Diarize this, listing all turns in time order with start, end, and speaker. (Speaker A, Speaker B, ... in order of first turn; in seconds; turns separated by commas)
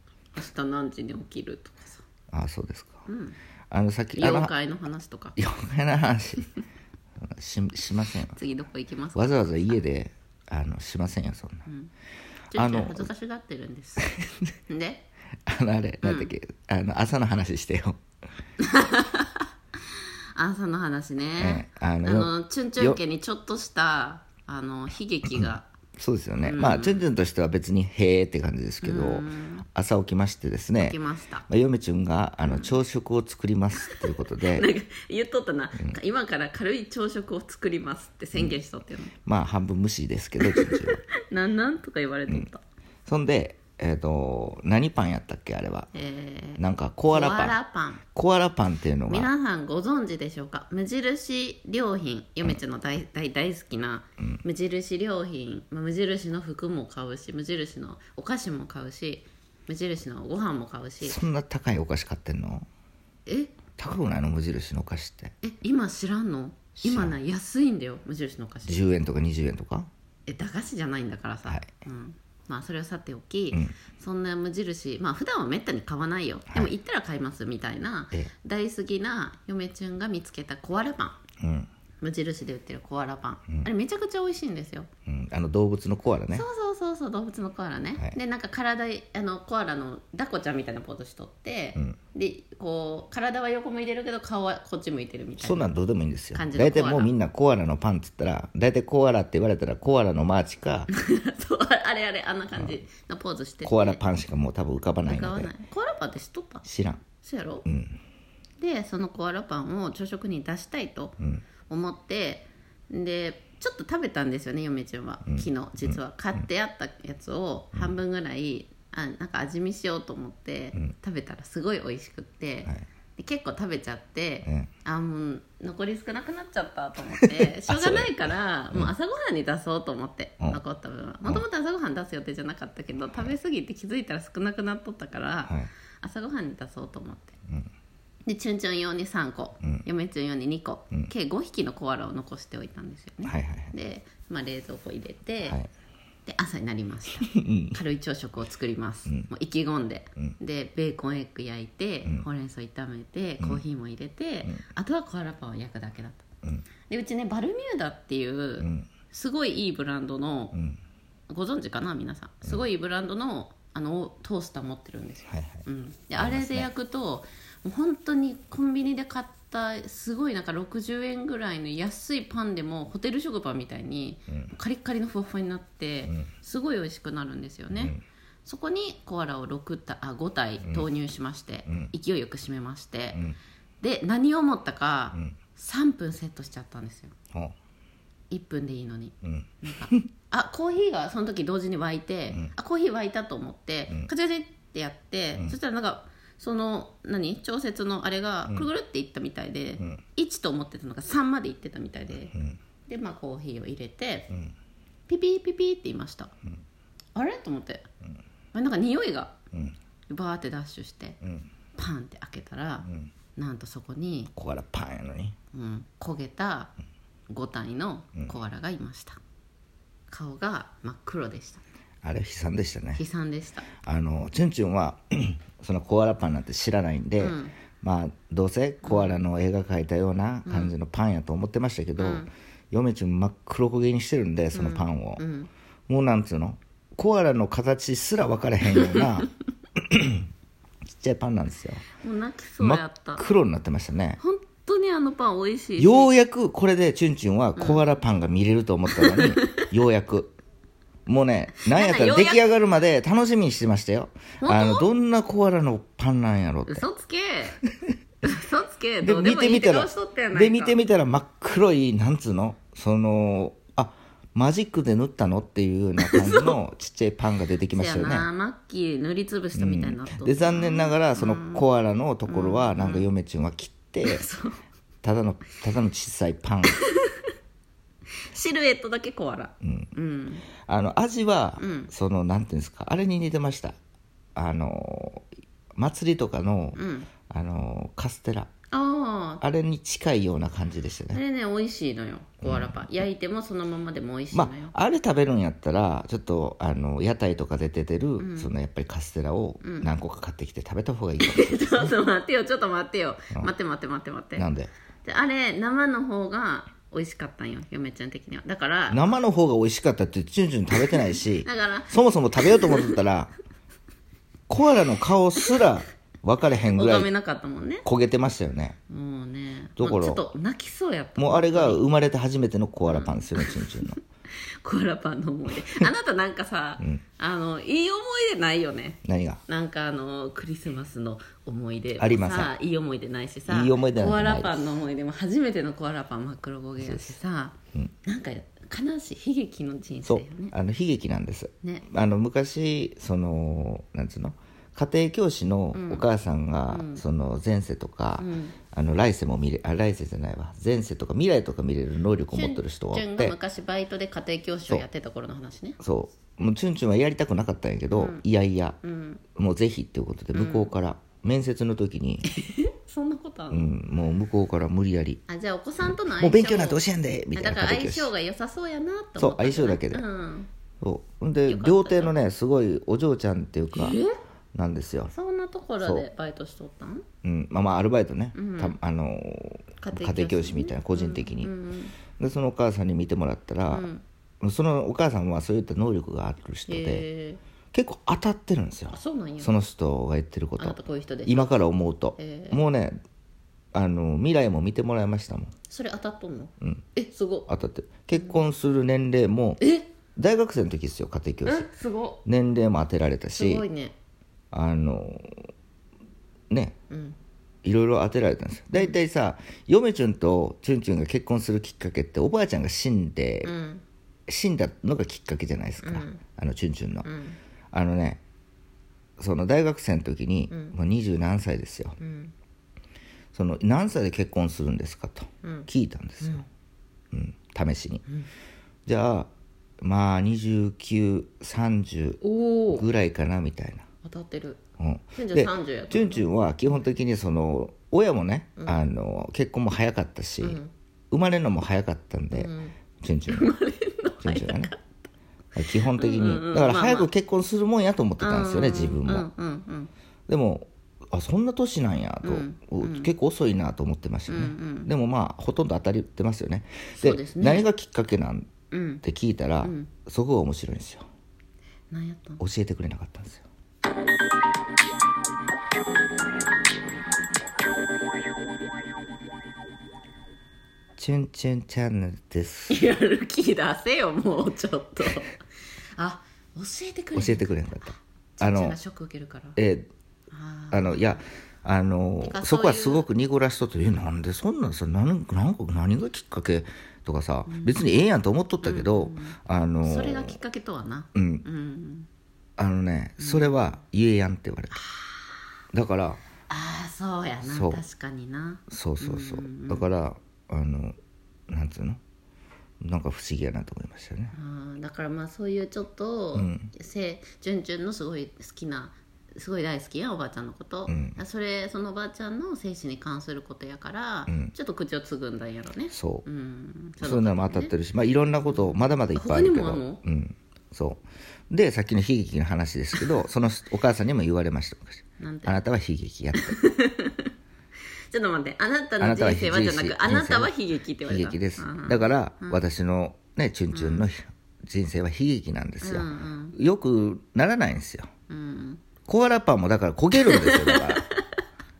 Speaker A: 0.3-2.0, Speaker B: 2.3-3.1, Speaker A: 3.1-3.4, Speaker B: 3.7-4.5, Speaker A: 4.1-5.4, Speaker B: 5.4-6.5, Speaker B: 7.2-8.4, Speaker A: 8.3-9.8, Speaker B: 9.2-11.7, Speaker A: 12.5-15.1, Speaker B: 12.5-13.1, Speaker B: 15.5-18.0, Speaker A: 16.0-16.3, Speaker A: 18.6-25.7, Speaker B: 21.4-23.0, Speaker B: 25.3-34.7, Speaker A: 26.4-27.1, Speaker A: 28.8-29.6, Speaker A: 30.8-31.5, Speaker A: 32.5-32.7, Speaker A: 33.8-39.1, Speaker B: 39.3-41.0, Speaker A: 40.4-42.6, Speaker B: 43.1-45.9, Speaker A: 45.9-48.0, Speaker B: 46.6-47.6, Speaker B: 48.1-49.3, Speaker A: 49.1-61.2, Speaker B: 61.0-62.7, Speaker A: 63.3-63.6, Speaker B: 63.8-65.3, Speaker A: 65.4-68.8, Speaker B: 66.8-67.2, Speaker B: 68.7-69.9, Speaker A: 70.3-81.2, Speaker B: 81.4-81.7, Speaker A: 82.0-84.9, Speaker B: 85.1-86.5, Speaker A: 86.3-95.8, Speaker B: 95.4-100.9, Speaker A: 96.3-97.1, Speaker A: 100.9-104.0, Speaker B: 103.6-105.5, Speaker A: 105.1-106.7, Speaker B: 106.7-107.0, Speaker A: 107.2-107.7, Speaker B: 107.7-108.0, Speaker A: 108.6-111.2, Speaker A: 111.7-137.4, Speaker B: 115.3-116.0, Speaker B: 127.2-128.9, Speaker A: 138.3-145.6, Speaker B: 143.2-143.7, Speaker B: 145.4-145.7, Speaker A: 146.3-156.2, Speaker B: 147.3-147.8, Speaker A: 156.9-160.6, Speaker B: 158.6-158.9, Speaker B: 160.5-160.8, Speaker A: 161.3-183.2, Speaker B: 165.3-165.6, Speaker B: 166.2-166.7, Speaker B: 177.7-178.0, Speaker A: 183.8-187.1, Speaker A: 188.3-202.3, Speaker B: 189.2-190.1, Speaker A: 202.9-204.3, Speaker A: 205.1-206.3, Speaker A: 207.2-207.9, Speaker A: 208.5-209.4, Speaker A: 210.1-211.2, Speaker A: 211.8-214.3, Speaker B: 214.3-215.4, Speaker A: 215.5-216.7, Speaker A: 217.3-219.2, Speaker A: 220.1-221.6, Speaker B: 222.0-223.0, Speaker A: 223.0-223.7, Speaker B: 223.8-235.2, Speaker A: 227.2-227.6, Speaker A: 228.8-229.2, Speaker A: 230.5-230.7, Speaker A: 232.0-232.3, Speaker A: 234.5-235.5, Speaker B: 235.9-240.3, Speaker A: 238.8-239.1, Speaker B: 240.9-241.8, Speaker A: 242.0-243.3, Speaker B: 242.6-244.2, Speaker A: 244.2-246.1, Speaker B: 245.8-250.3, Speaker A: 247.6-247.8, Speaker A: 248.9-249.7, Speaker B: 251.1-256.9, Speaker A: 251.6-252.5, Speaker A: 254.4-254.9, Speaker A: 256.7-257.6, Speaker A: 258.2-260.8, Speaker B: 259.0-268.3, Speaker A: 266.0-266.6, Speaker A: 267.7-271.7, Speaker B: 269.6-274.2, Speaker A: 272.3-273.1, Speaker A: 274.0-274.6, Speaker B: 275.0-276.8, Speaker A: 276.7-277.2, Speaker A: 278.3-280.5, Speaker B: 279.6-279.9, Speaker B: 280.6-283.8, Speaker A: 281.6-281.9, Speaker B: 284.4-288.5, Speaker A: 286.8-287.1, Speaker A: 288.7-289.4, Speaker B: 289.4-291.2, Speaker A: 291.1-294.8, Speaker B: 292.4-293.1, Speaker B: 294.3-301.9, Speaker A: 298.2-298.5, Speaker A: 299.6-299.9, Speaker A: 301.2-304.5, Speaker B: 304.4-304.7, Speaker A: 305.0-309.2, Speaker B: 308.9-313.3, Speaker A: 311.0-313.0, Speaker B: 314.5-317.1, Speaker A: 316.7-317.9, Speaker B: 317.9-318.8, Speaker A: 318.9-321.8, Speaker B: 319.8-320.2, Speaker B: 321.2-324.0, Speaker A: 322.9-340.5, Speaker B: 329.1-329.4, Speaker B: 332.0-332.5, Speaker B: 333.5-334.7, Speaker B: 336.8-337.2, Speaker B: 340.1-353.4, Speaker A: 345.7-346.0, Speaker A: 346.7-347.0, Speaker A: 348.2-348.6, Speaker A: 352.3-355.8, Speaker B: 355.8-358.8, Speaker A: 357.9-358.2, Speaker A: 358.8-359.2, Speaker B: 359.4-362.3, Speaker A: 360.3-360.7, Speaker A: 362.2-363.8, Speaker B: 363.5-365.2, Speaker A: 365.3-366.8, Speaker B: 366.2-368.1, Speaker A: 367.3-370.5, Speaker B: 369.2-370.1, Speaker B: 370.8-374.0, Speaker A: 371.5-372.1, Speaker A: 373.7-374.2, Speaker B: 374.5-375.1, Speaker A: 375.1-377.1, Speaker B: 375.8-376.1, Speaker B: 377.2-381.5, Speaker A: 378.3-378.8, Speaker A: 379.8-382.0, Speaker B: 382.2-383.9, Speaker A: 383.7-384.0, Speaker B: 384.4-387.1, Speaker A: 386.7-387.4, Speaker B: 387.7-393.0, Speaker A: 388.9-389.5, Speaker A: 390.6-391.6, Speaker A: 392.2-392.6, Speaker B: 393.7-395.5, Speaker A: 395.7-397.5, Speaker B: 397.5-399.6, Speaker A: 398.2-398.4, Speaker A: 399.6-399.9, Speaker B: 400.2-401.7, Speaker A: 401.5-402.2, Speaker B: 402.2-403.6, Speaker A: 403.3-403.9, Speaker B: 404.5-405.5, Speaker B: 406.5-406.8, Speaker A: 406.9-407.2, Speaker B: 407.6-413.5, Speaker A: 413.4-413.8, Speaker B: 414.3-417.1, Speaker A: 415.8-416.2, Speaker A: 417.0-417.4, Speaker B: 417.7-418.2, Speaker B: 419.2-422.0, Speaker A: 420.5-420.8, Speaker A: 422.0-422.3, Speaker B: 423.3-426.4, Speaker A: 425.4-425.7, Speaker B: 427.1-428.0, Speaker B: 428.9-429.3, Speaker B: 429.8-433.9, Speaker A: 432.2-432.9, Speaker A: 434.0-434.6, Speaker B: 434.8-440.6, Speaker A: 435.2-436.8, Speaker A: 438.6-438.8, Speaker A: 440.4-440.7, Speaker B: 441.1-443.5, Speaker A: 442.3-442.8, Speaker A: 443.3-444.8, Speaker B: 444.2-444.7, Speaker B: 445.6-449.3, Speaker A: 445.7-447.1, Speaker A: 448.2-449.9, Speaker B: 450.3-458.5, Speaker A: 452.2-453.1, Speaker A: 454.3-454.9, Speaker A: 457.0-457.7, Speaker A: 458.7-459.0, Speaker B: 459.0-461.1, Speaker A: 459.6-459.9, Speaker A: 461.9-462.4, Speaker B: 462.4-463.4, Speaker B: 471.0-472.8, Speaker A: 472.7-475.4, Speaker A: 476.0-479.6, Speaker B: 477.1-478.8, Speaker B: 479.6-479.9, Speaker A: 480.3-481.2, Speaker B: 480.7-490.4, Speaker A: 482.2-483.1, Speaker A: 487.5-487.8, Speaker A: 488.6-492.1, Speaker B: 491.1-491.4, Speaker B: 492.6-494.8, Speaker A: 493.2-493.7, Speaker A: 494.7-495.4, Speaker B: 495.7-496.2, Speaker A: 496.5-499.9, Speaker B: 497.4-497.8, Speaker B: 498.7-501.0, Speaker B: 501.5-502.0, Speaker B: 502.8-504.3, Speaker A: 504.3-517.7, Speaker B: 506.4-506.7, Speaker B: 510.9-511.2, Speaker B: 514.3-514.5, Speaker B: 515.9-516.3, Speaker B: 517.0-526.6, Speaker A: 518.4-520.0, Speaker A: 525.2-525.6, Speaker A: 526.4-527.3, Speaker A: 528.1-532.6, Speaker B: 529.0-538.1, Speaker A: 533.7-534.1, Speaker A: 535.8-536.6, Speaker A: 538.3-538.8, Speaker B: 539.1-541.0, Speaker A: 540.2-541.2